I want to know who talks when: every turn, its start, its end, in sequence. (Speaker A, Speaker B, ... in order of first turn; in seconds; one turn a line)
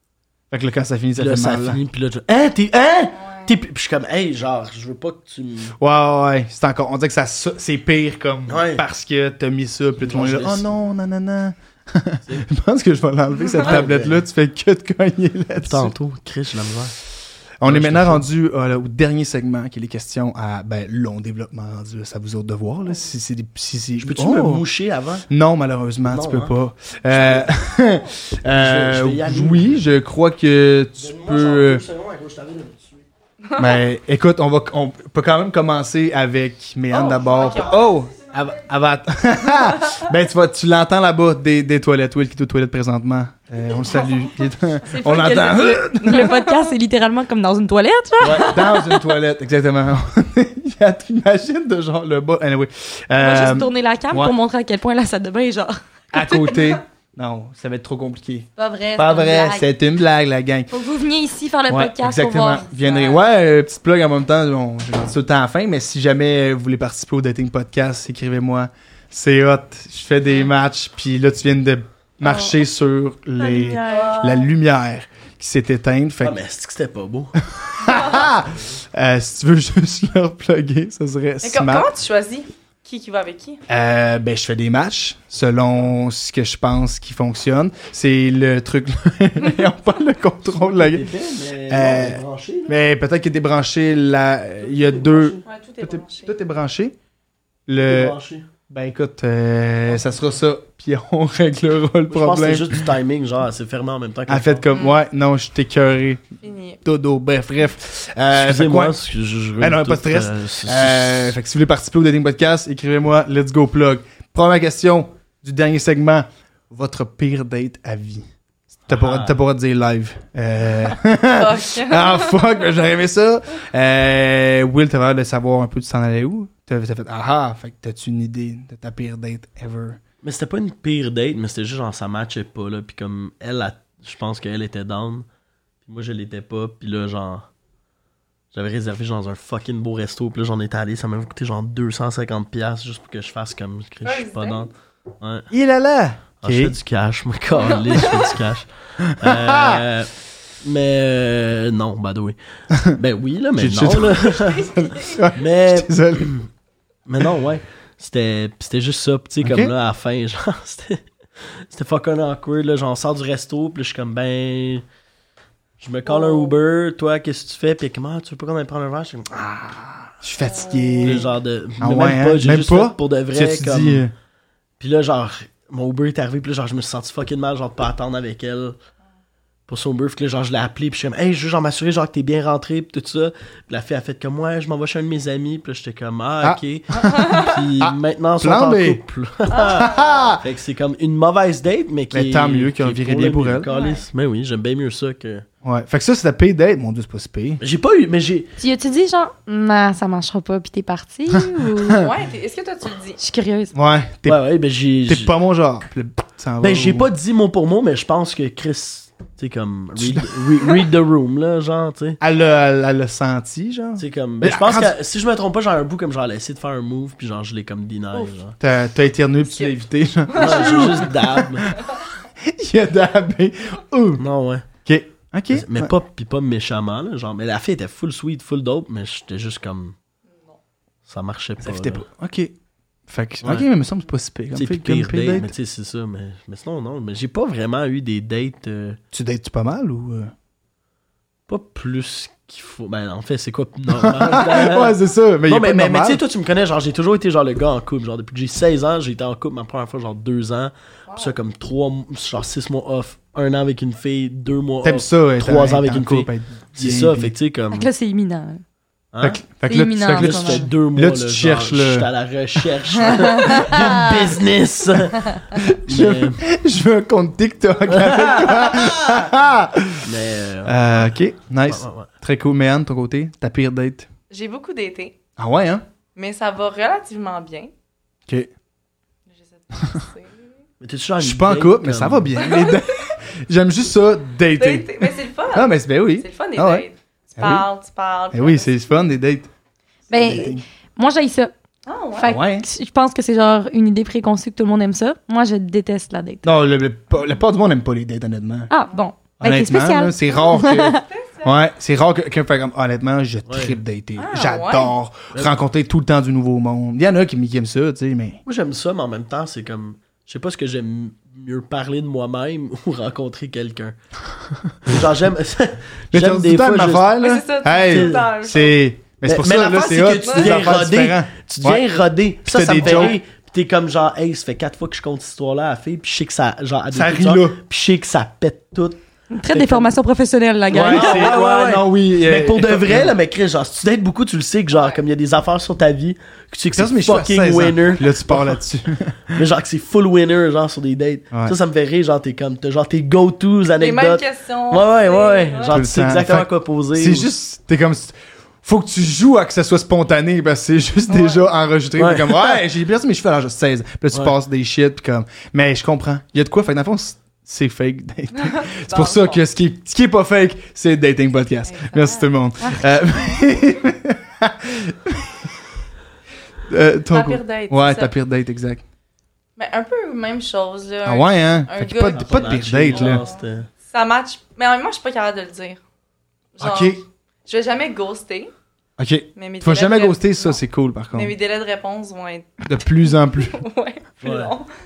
Speaker A: 0.5-1.8
Speaker B: 1.2-5.7
Speaker C: 3.2-3.5
Speaker A: 5.8-15.9
Speaker B: 8.5-8.8
Speaker B: 10.0-10.7
Speaker B: 13.6-14.2
Speaker B: 15.6-16.9
Speaker A: 17.6-24.6
Speaker B: 17.6-18.2
Speaker B: 24.0-25.2
Speaker A: 25.3-31.8
Speaker B: 26.1-26.6
Speaker B: 27.1-27.5
Speaker B: 28.4-29.8
Speaker B: 31.0-33.0
Speaker A: 33.5-46.3
Speaker C: 36.9-37.8
Speaker D: 44.9-49.0
Speaker B: 48.2-48.5
Speaker A: 48.3-54.3
Speaker D: 53.1-56.5
Speaker A: 56.1-60.7
Speaker D: 58.5-59.7
Speaker D: 60.7-63.2
Speaker A: 61.7-76.3
Speaker D: 72.2-72.5
Speaker D: 73.4-74.5
Speaker C: 73.9-74.4
Speaker B: 76.2-77.3
Speaker A: 77.5-81.9
Speaker C: 81.4-83.6
Speaker A: 83.7-91.1
Speaker B: 90.6-92.8
Speaker A: 91.7-96.9
Speaker B: 94.6-95.4
Speaker C: 95.2-96.3
Speaker A: 97.7-98.2
Speaker B: 97.8-98.5
Speaker A: 98.7-102.8
Speaker B: 102.1-104.6
Speaker A: 104.3-106.2
Speaker C: 106.4-106.8
Speaker A: 106.8-108.9
Speaker B: 108.3-111.4
Speaker A: 109.6-130.0
Speaker B: 118.9-119.3
Speaker C: 121.3-122.5
Speaker B: 130.2-135.3
Speaker B: 135.8-137.5
Speaker B: 138.5-145.5
Speaker C: 144.0-144.7
Speaker A: 145.5-146.7
Speaker B: 146.4-148.7
Speaker C: 147.5-148.4
Speaker A: 149.0-149.8
Speaker B: 149.2-150.1
Speaker B: 150.6-152.4
Speaker B: 152.9-154.7
Speaker A: 153.6-156.3
Speaker C: 154.4-155.2
Speaker B: 155.3-156.5
Speaker B: 157.1-164.8
Speaker A: 159.4-159.7
Speaker B: 165.8-169.3
Speaker C: 166.1-166.6
Speaker A: 169.3-171.3
Speaker C: 170.4-171.2
Speaker B: 171.0-174.1
Speaker A: 171.8-174.1
Speaker B: 174.8-178.8
Speaker B: 179.7-195.4
Speaker A: 186.4-189.0
Speaker C: 187.0-187.6
Speaker C: 189.5-190.3
Speaker A: 189.7-190.4
Speaker A: 192.1-193.7
Speaker C: 193.7-194.0
Speaker A: 195.6-197.6
Speaker B: 197.6-198.5
Speaker D: 198.6-202.0
Speaker A: 201.8-202.1
Speaker C: 202.0-203.2
Speaker D: 203.2-203.7
Speaker A: 203.7-204.4
Speaker B: 204.2-205.3
Speaker A: 205.1-207.1
Speaker B: 206.6-212.2
Speaker A: 210.0-210.7
Speaker A: 212.2-214.9
Speaker B: 214.0-218.5
Speaker A: 218.6-221.9
Speaker C: 219.4-221.1
Speaker B: 220.3-221.7
Speaker A: 222.4-224.2
Speaker B: 224.2-224.7
Speaker A: 224.8-225.9
Speaker B: 225.5-229.9
Speaker B: 231.1-232.0
Speaker A: 231.6-232.5
Speaker A: 233.1-235.5
Speaker B: 234.5-239.0
Speaker A: 239.1-240.3
Speaker B: 241.5-244.9
Speaker A: 244.0-246.2
Speaker B: 245.5-257.9
Speaker C: 251.1-251.3
Speaker A: 254.8-257.3
Speaker D: 257.7-258.6
Speaker B: 259.1-259.4
Speaker A: 259.2-262.1
Speaker D: 259.7-260.7
Speaker B: 260.1-266.4
Speaker D: 263.1-264.1
Speaker A: 263.6-264.1
Speaker A: 265.6-270.0
Speaker B: 267.9-269.3
Speaker B: 270.0-272.1
Speaker A: 270.6-274.1
Speaker C: 274.3-275.1
Speaker A: 275.4-275.8
Speaker C: 276.1-277.7
Speaker C: 279.3-280.4
Speaker B: 280.8-282.3
Speaker A: 281.2-286.8
Speaker C: 282.4-282.8
Speaker C: 284.5-288.8
Speaker A: 287.4-287.6
Speaker A: 288.3-289.5
Speaker A: 290.1-290.6
Speaker D: 290.1-291.5
Speaker C: 291.9-292.4
Speaker D: 292.2-296.5
Speaker A: 292.2-292.6
Speaker A: 296.4-298.7
Speaker D: 298.7-301.0
Speaker A: 299.4-308.4
Speaker C: 300.7-301.5
Speaker B: 303.5-303.8
Speaker C: 304.2-304.9
Speaker B: 308.4-313.9
Speaker B: 314.9-317.1
Speaker A: 316.1-321.9
Speaker C: 317.2-318.8
Speaker B: 317.9-318.3
Speaker B: 319.2-329.9
Speaker C: 320.2-320.8
Speaker A: 322.4-323.2
Speaker C: 322.7-323.1
Speaker A: 326.9-327.6
Speaker D: 329.3-331.4
Speaker A: 330.7-333.1
Speaker B: 330.7-338.6
Speaker A: 336.7-339.4
Speaker B: 339.3-347.3
Speaker C: 343.8-345.8
Speaker A: 345.7-365.3
Speaker C: 351.1-351.4
Speaker B: 352.0-352.6
Speaker C: 358.4-359.4
Speaker C: 361.6-362.3
Speaker A: 366.7-368.8
Speaker C: 367.1-368.1
Speaker C: 369.6-375.8
Speaker A: 371.0-373.2
Speaker B: 372.1-373.7
Speaker C: 376.6-378.5
Speaker A: 376.6-377.0
Speaker A: 379.0-381.3
Speaker C: 379.4-380.6
Speaker C: 381.1-384.7
Speaker A: 382.6-383.6
Speaker B: 384.2-384.5